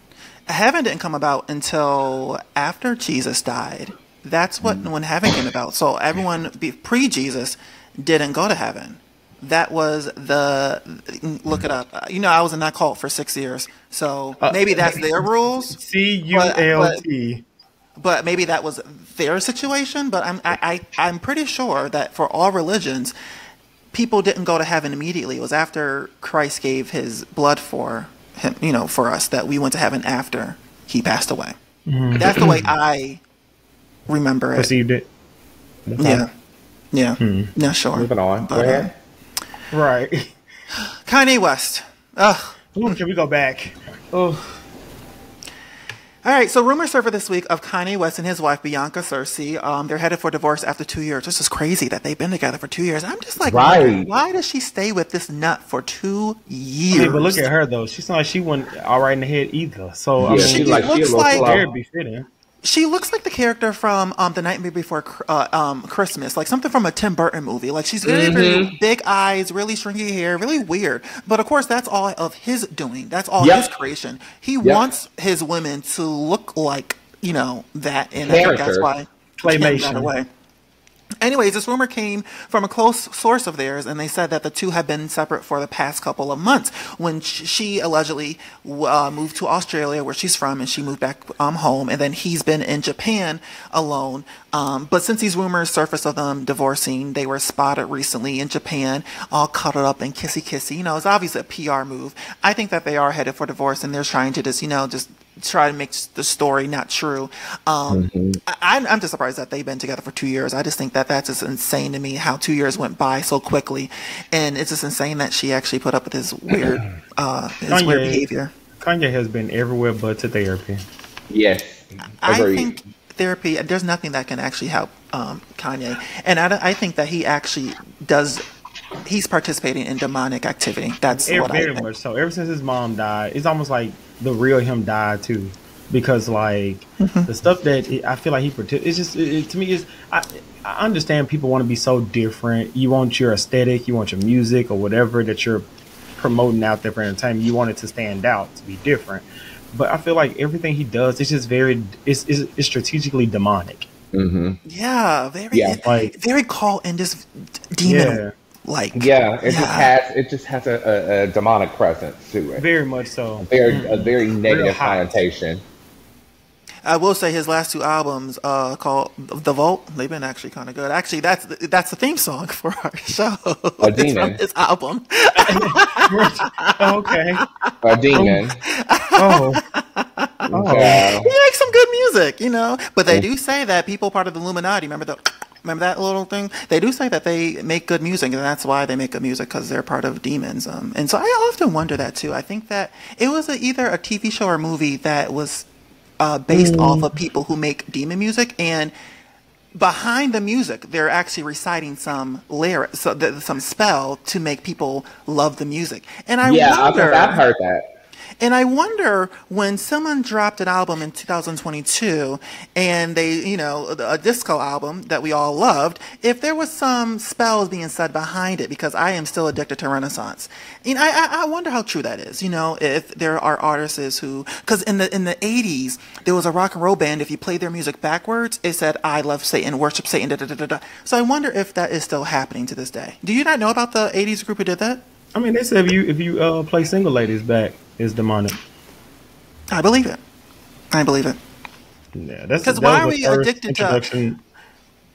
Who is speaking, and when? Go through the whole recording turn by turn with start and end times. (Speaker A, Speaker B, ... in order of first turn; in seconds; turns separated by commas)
Speaker A: 0.5-15.8, Speaker B: 14.4-15.0, Speaker B: 15.8-17.4, Speaker A: 16.3-17.0, Speaker A: 18.0-23.1, Speaker A: 23.9-31.6, Speaker B: 31.9-32.4, Speaker A: 32.2-33.2, Speaker A: 34.1-34.7, Speaker B: 34.6-35.1, Speaker C: 35.9-36.2, Speaker A: 36.0-36.3, Speaker A: 36.9-38.9, Speaker B: 37.2-37.5, Speaker C: 38.0-38.9, Speaker B: 39.7-40.4, Speaker A: 41.1-43.0, Speaker B: 42.8-44.6, Speaker A: 46.2-57.4, Speaker C: 53.5-54.1, Speaker B: 56.9-62.3, Speaker C: 60.2-61.7, Speaker A: 60.3-61.5, Speaker A: 62.6-80.3, Speaker C: 68.0-68.7, Speaker C: 73.4-73.7, Speaker C: 74.6-74.9, Speaker C: 78.2-78.9, Speaker B: 79.4-80.1, Speaker A: 81.2-118.5, Speaker C: 107.9-108.4, Speaker B: 117.7-118.2, Speaker B: 118.8-120.8, Speaker C: 121.3-122.8, Speaker A: 122.2-128.4, Speaker A: 129.0-131.9, Speaker B: 131.1-153.9, Speaker A: 137.0-137.3, Speaker C: 154.1-154.6, Speaker A: 154.7-159.9, Speaker C: 155.5-155.8, Speaker B: 155.8-156.1, Speaker B: 157.8-158.3, Speaker C: 158.9-162.7, Speaker B: 162.6-165.2, Speaker C: 163.4-165.6, Speaker A: 166.8-177.7, Speaker C: 173.8-174.4, Speaker B: 175.4-177.4, Speaker C: 177.8-178.6, Speaker B: 178.1-178.4, Speaker A: 178.6-195.7, Speaker B: 179.2-179.6, Speaker B: 180.5-181.0, Speaker C: 180.5-181.3, Speaker A: 196.2-198.9, Speaker C: 196.5-197.1, Speaker A: 199.8-207.4, Speaker C: 206.4-207.9, Speaker A: 208.4-235.0, Speaker B: 235.3-238.6, Speaker A: 239.7-240.2, Speaker A: 240.9-241.4, Speaker B: 242.2-244.4, Speaker A: 242.6-244.0